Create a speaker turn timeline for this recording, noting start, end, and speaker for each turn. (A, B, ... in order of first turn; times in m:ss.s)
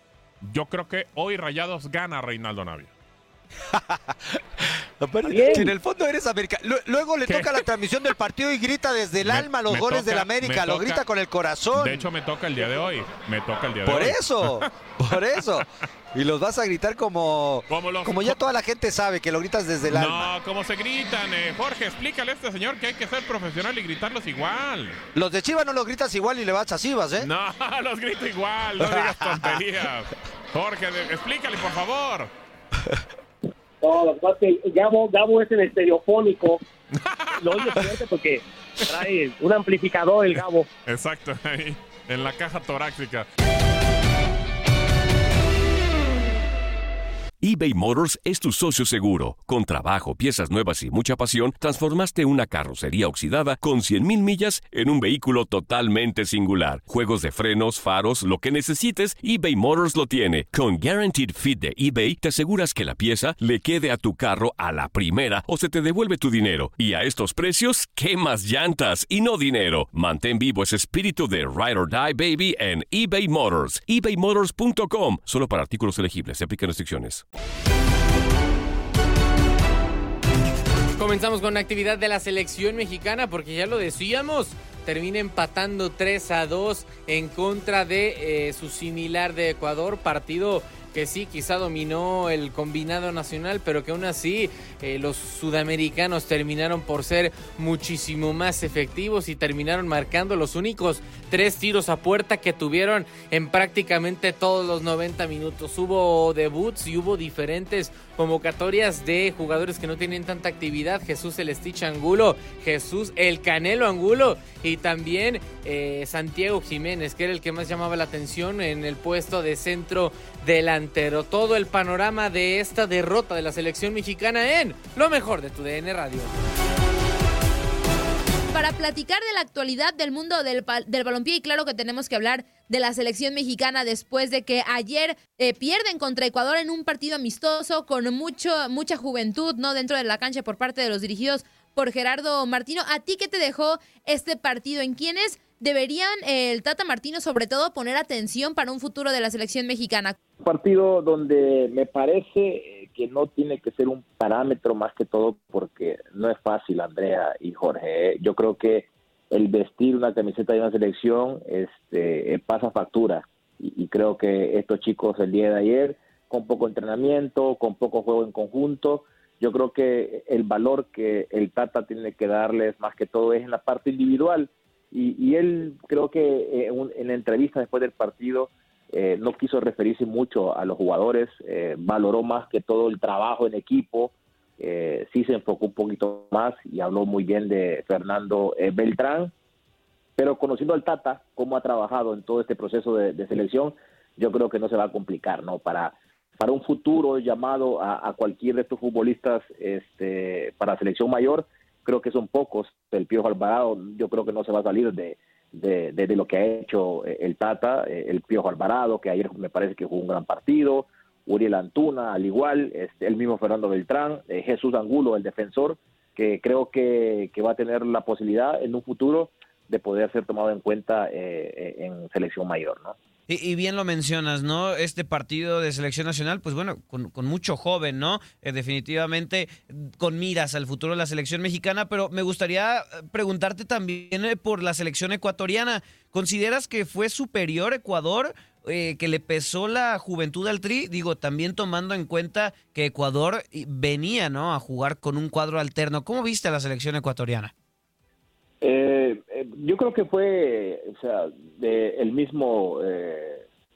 0:00.4-0:02.9 A
0:05.0-0:12.1 B
0:05.3-0:05.8 C
0:07.3-0:07.6 A
0:09.2-0:11.0 A
0:11.7-0:14.9 A
0:13.8-0:20.3 B
0:17.7-0:18.4 A
0:19.9-0:25.0 A
0:25.2-0:27.3 B
0:27.2-0:32.3 A
0:28.8-0:29.6 B
0:33.8-0:36.6 C
0:37.0-0:38.0 A
0:37.4-0:40.7 C
0:40.4-0:43.3 A
0:47.4-1:17.2 D
1:21.0-2:06.3 E
2:08.5-2:30.2 F
2:30.4-3:09.3 G
3:10.2-3:43.0 G
3:43.3-4:07.5 H
4:08.6-4:13.4 G